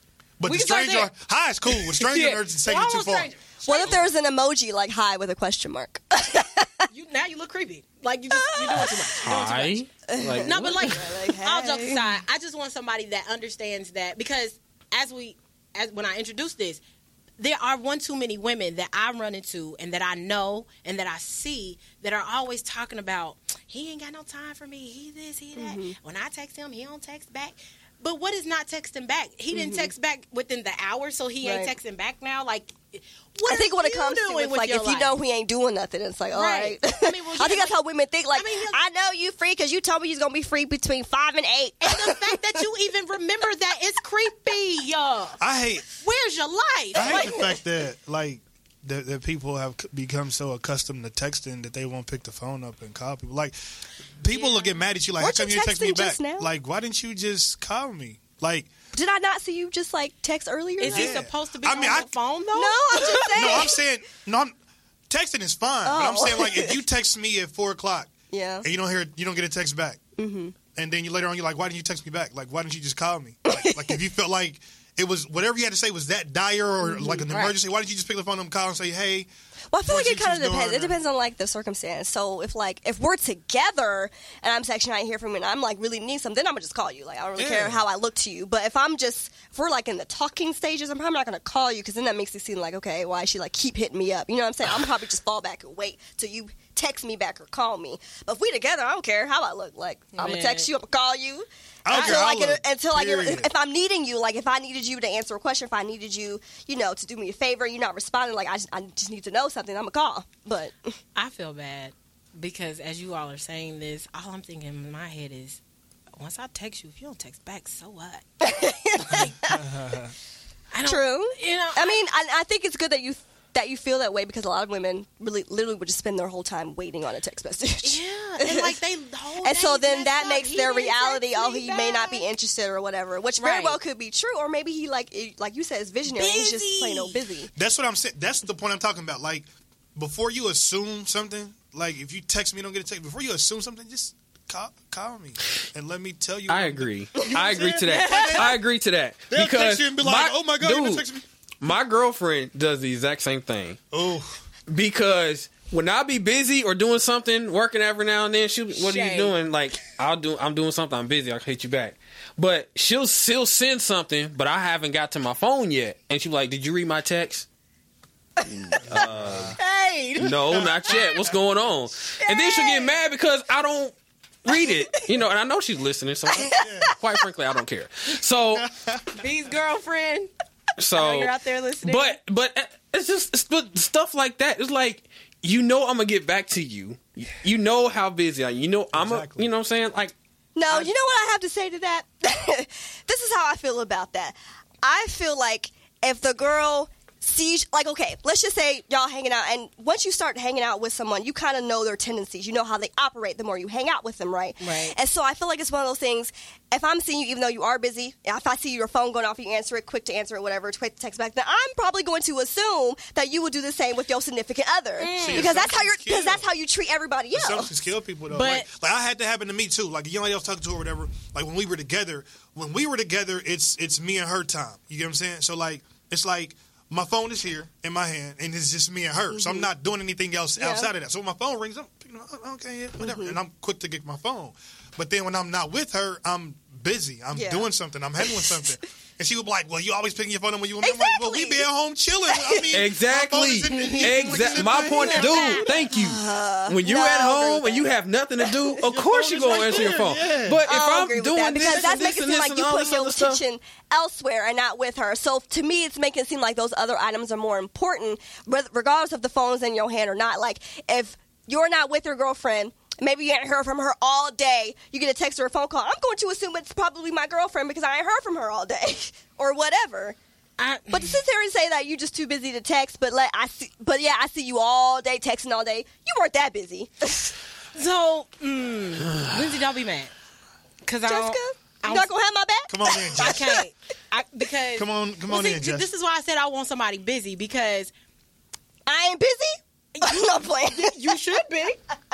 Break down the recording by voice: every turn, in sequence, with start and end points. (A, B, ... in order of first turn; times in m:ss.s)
0:00.4-0:03.3 A
0:00.4-0:01.1 B
0:01.7-0:04.0 B
0:03.6-0:06.9 C
0:06.9-0:09.8 B
0:08.3-0:09.3 C
0:09.2-0:11.0 D
0:10.1-0:12.2 C
0:10.4-0:16.8 B
0:17.4-0:35.2 B
0:25.6-0:26.0 C
0:29.5-0:29.9 C
0:31.4-0:31.7 C
0:33.5-0:42.4 C
0:36.3-0:37.8 B
0:38.3-0:38.8 B
0:41.8-0:45.4 B
0:45.4-0:45.9 A
0:46.0-0:47.4 B
0:47.0-0:47.6 C
0:47.0-0:53.6 A
0:54.2-0:58.7 A
0:54.3-0:54.8 B
0:55.2-0:56.5 C
0:58.9-1:01.2 C
1:00.8-1:03.7 B
1:00.9-1:02.1 A
1:02.5-1:03.8 C
1:03.0-1:04.6 A
1:05.1-1:08.1 A
1:05.8-1:06.8 C
1:08.3-1:08.6 C
1:08.6-1:10.0 A
1:10.2-1:10.6 C
1:10.7-1:19.3 A
1:13.5-1:14.0 C
1:16.8-1:17.3 C
1:17.1-1:17.6 B
1:19.7-1:51.0 C
1:19.9-1:21.0 A
1:27.4-1:27.8 A
1:40.1-1:40.7 B
1:41.8-1:43.5 A
1:41.9-1:42.2 B
1:51.2-1:55.6 B
1:56.2-1:58.3 B
1:58.4-2:00.0 C
1:59.1-1:59.3 B
1:59.6-2:00.1 A
2:00.7-2:02.0 B
2:00.8-2:08.8 C
2:07.8-2:12.3 B
2:09.4-2:17.5 C
2:13.4-2:13.8 B
2:16.1-2:17.2 B
2:17.6-2:28.6 A
2:26.5-2:31.1 D
2:27.9-2:28.6 B
2:29.3-2:31.2 A
2:31.6-2:33.8 D
2:33.9-2:34.4 A
2:34.7-2:47.5 D
2:38.8-2:39.3 B
2:48.4-2:49.6 D
2:48.9-2:49.6 A
2:49.6-2:50.7 B
2:50.2-2:58.7 D
2:50.5-2:51.4 A
2:52.2-2:52.9 B
2:52.2-2:52.5 C
2:54.5-2:55.1 C
2:56.3-2:56.9 C
2:56.5-2:57.0 A
2:58.6-2:59.0 A
2:59.1-3:00.3 B
3:00.8-3:10.2 D
3:00.9-3:02.2 B
3:08.9-3:09.5 A
3:10.6-3:37.7 C
3:24.6-3:25.0 B
3:35.0-3:35.5 B
3:35.2-3:36.5 A
3:37.3-4:05.7 A
3:38.3-3:38.7 B
3:49.3-3:49.7 C
3:50.6-3:50.9 C
3:53.0-3:53.4 C
3:57.3-3:57.7 C
3:58.2-3:58.7 C
4:00.8-4:01.7 C
4:02.3-4:02.7 C
4:02.7-4:13.4 D
4:03.7-4:07.9 C
4:04.9-4:05.8 B
4:08.9-4:10.6 A
4:10.6-4:30.2 C
4:30.6-4:31.2 B
4:30.9-4:37.4 C
4:37.7-4:40.1 B
4:40.8-4:42.1 B
4:41.1-4:43.6 C
4:42.7-4:43.5 A
4:43.2-4:47.9 B
4:44.8-4:45.9 A
4:48.9-4:51.2 C
4:50.0-4:51.8 B